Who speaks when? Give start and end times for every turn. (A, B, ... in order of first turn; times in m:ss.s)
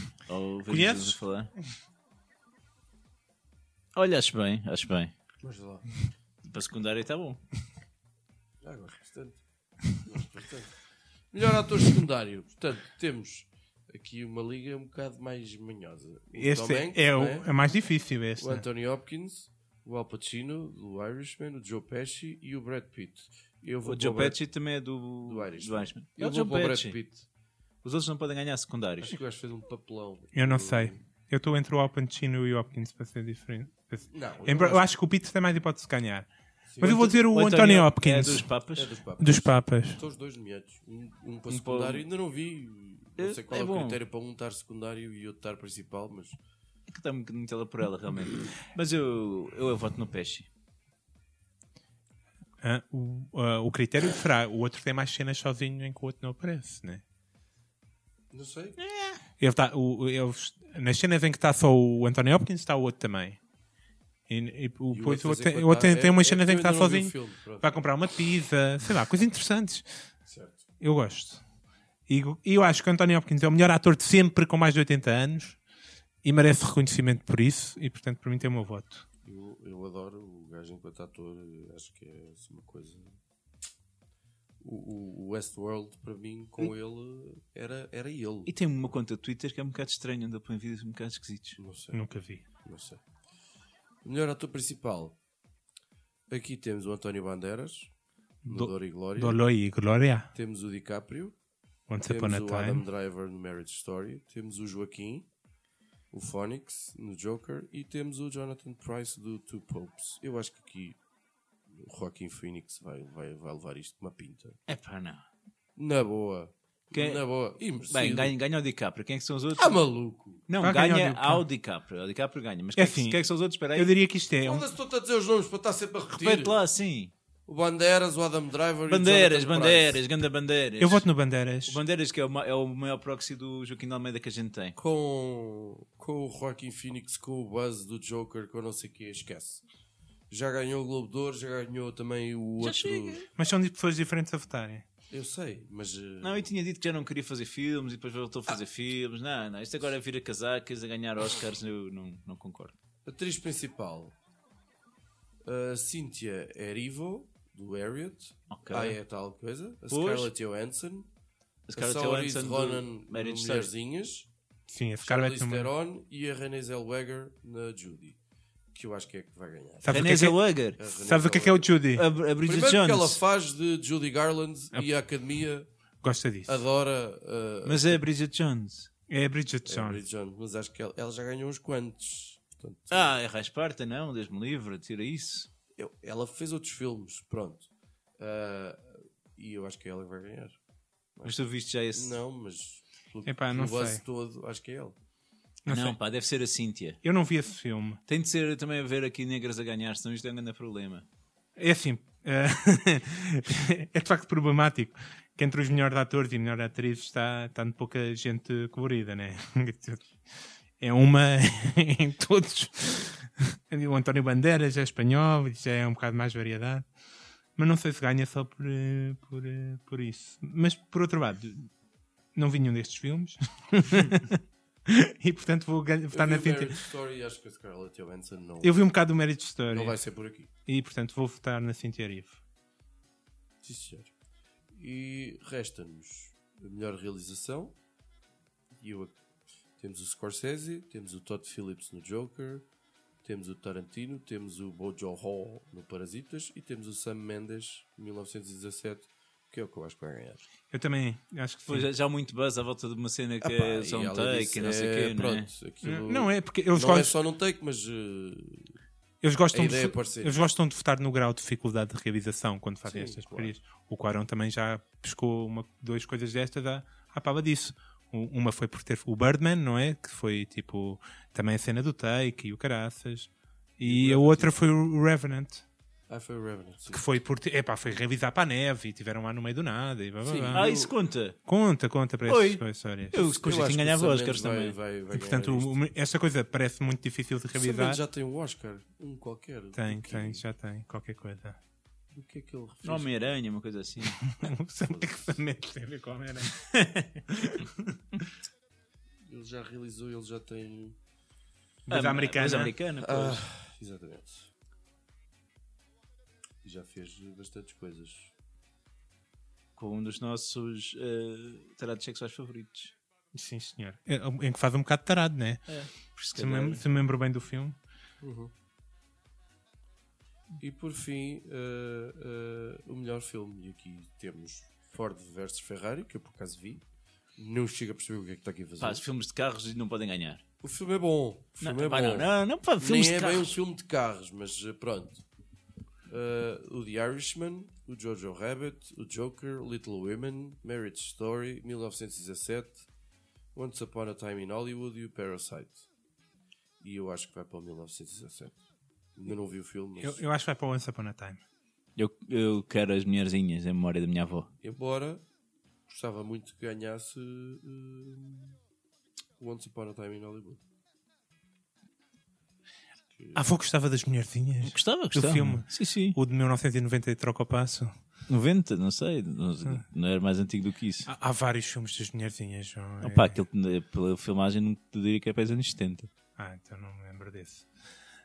0:00.3-0:01.5 A
0:00.7-0:01.2 B
0:03.9-0:05.1 A
0:05.4-0:05.8 C
0:06.4-0:07.4 A
0:08.6-0:10.8 C
0:11.3-0:17.5 C
0:16.4-0:18.6 B
0:18.4-0:24.4 C
0:23.8-0:27.0 A
0:25.2-0:27.2 C
0:27.8-0:29.2 A
0:29.0-0:31.0 C
0:30.3-0:36.3 B
0:34.1-0:34.9 C
0:36.7-0:37.2 C
0:36.8-0:38.5 B
0:36.8-0:39.0 A
0:38.7-0:46.4 C
0:39.2-0:40.0 B
0:41.5-0:42.0 A
0:43.2-0:44.0 A
0:46.9-0:50.5 A
0:52.6-0:57.0 B
0:58.3-0:58.8 C
0:58.8-0:59.2 A
0:59.4-1:03.4 B
1:04.3-1:09.8 B
1:04.9-1:07.8 C
1:10.3-1:10.6 C
1:10.8-1:11.4 B
1:12.1-1:15.6 B
1:16.2-1:19.0 B
1:19.2-1:23.2 C
1:24.6-1:28.5 C
1:28.5-1:31.6 A
1:31.6-1:33.0 C
1:31.9-1:32.4 B
1:34.0-1:35.2 C
1:36.3-1:37.9 C
1:38.4-1:40.3 B
1:38.5-1:39.4 C
1:40.3-1:41.3 C
1:41.9-1:42.8 B
1:42.0-1:45.3 C
1:46.1-1:51.0 C
1:51.7-1:54.6 C
1:54.7-1:55.2 A
1:55.8-1:58.3 C
1:56.9-1:57.2 A
1:57.9-1:59.8 A
1:59.6-2:00.4 C
2:00.5-2:03.9 A
2:00.6-2:01.4 B
2:02.8-2:03.2 B
2:03.7-2:04.7 B
2:04.4-2:06.6 C
2:06.2-2:07.1 A
2:07.5-2:10.0 C
2:08.9-2:11.1 A
2:10.8-2:11.8 B
2:11.6-2:14.8 A
2:14.8-2:19.6 C
2:20.3-2:23.2 C
2:22.6-2:23.3 A
2:23.4-2:24.8 B
2:25.1-2:26.5 C
2:26.2-2:32.7 A
2:33.0-2:34.1 C
2:35.4-2:41.1 C
2:38.5-2:39.0 A
2:39.9-2:40.3 A
2:41.7-2:43.7 A
2:41.8-2:44.3 C
2:44.7-2:45.7 B
2:45.0-2:48.2 C
2:48.7-2:49.9 C
2:49.8-2:50.4 B
2:49.9-2:50.8 A
2:50.8-2:51.8 C
2:51.0-2:52.0 B
2:52.0-2:53.2 A
2:52.4-2:55.7 C
2:56.0-2:56.6 B
2:56.4-2:58.0 C
2:57.6-2:58.9 A
2:59.1-3:00.0 B
2:59.6-3:03.2 C
3:02.9-3:05.5 A
3:05.8-3:10.6 C
3:11.2-3:11.4 C
3:11.2-3:12.2 A
3:11.9-3:15.0 C
3:13.2-3:14.0 B
3:15.6-3:16.0 B
3:15.7-3:17.0 A
3:17.0-3:18.0 B
3:18.1-3:21.0 A
3:21.6-3:30.2 B
3:30.8-3:36.9 B
3:37.6-3:41.7 B
3:42.3-3:46.8 B
3:46.1-3:48.8 C
3:48.6-3:50.0 B
3:49.7-3:50.5 C
3:50.6-3:52.4 B
3:53.6-3:54.1 C
3:54.7-3:57.8 C
3:58.7-3:59.2 C
3:59.8-4:02.6 C
4:03.2-4:10.4 C
4:10.7-4:11.9 B
4:11.7-4:15.5 A
4:13.4-4:18.8 C
4:15.8-4:17.1 B
4:19.2-4:35.6 B
4:19.5-4:20.4 C
4:22.8-4:23.5 C
4:33.8-4:34.5 C
4:36.1-4:37.0 C
4:36.9-4:40.7 B
4:40.2-4:40.9 C
4:40.5-4:41.4 A
4:41.4-4:43.3 B
4:42.3-4:42.6 A
4:43.1-4:44.7 A
4:43.2-4:45.7 C
4:45.1-4:48.0 B
4:47.5-4:50.4 C
4:49.7-4:51.6 B
4:52.1-4:53.3 C
4:52.8-4:54.3 A
4:54.3-4:58.0 B
4:54.9-4:55.2 C
4:56.7-4:57.1 A
4:59.2-5:01.0 C
5:01.9-5:02.7 B
5:01.9-5:03.4 A
5:03.0-5:04.5 C
5:06.6-5:08.3 C
5:09.8-5:12.9 A
5:13.3-5:17.8 B
5:15.7-5:16.8 A
5:18.2-5:18.5 C
5:20.6-5:26.8 C
5:27.4-5:29.0 C
5:28.8-5:30.4 A
5:30.6-5:35.2 C
5:31.6-5:33.5 A
5:36.1-5:42.8 C
5:43.5-5:45.8 C
5:46.8-5:48.6 C
5:49.2-5:50.2 C
5:50.0-5:51.4 B
5:52.0-5:54.5 A
5:54.6-5:55.2 C
5:55.9-5:58.6 C
5:59.4-6:00.6 C
6:03.1-6:03.4 C
6:03.3-6:07.9 B
6:04.6-6:06.2 A
6:08.3-6:11.1 A
6:11.1-6:13.4 B
6:13.0-6:16.1 A
6:16.4-6:17.6 B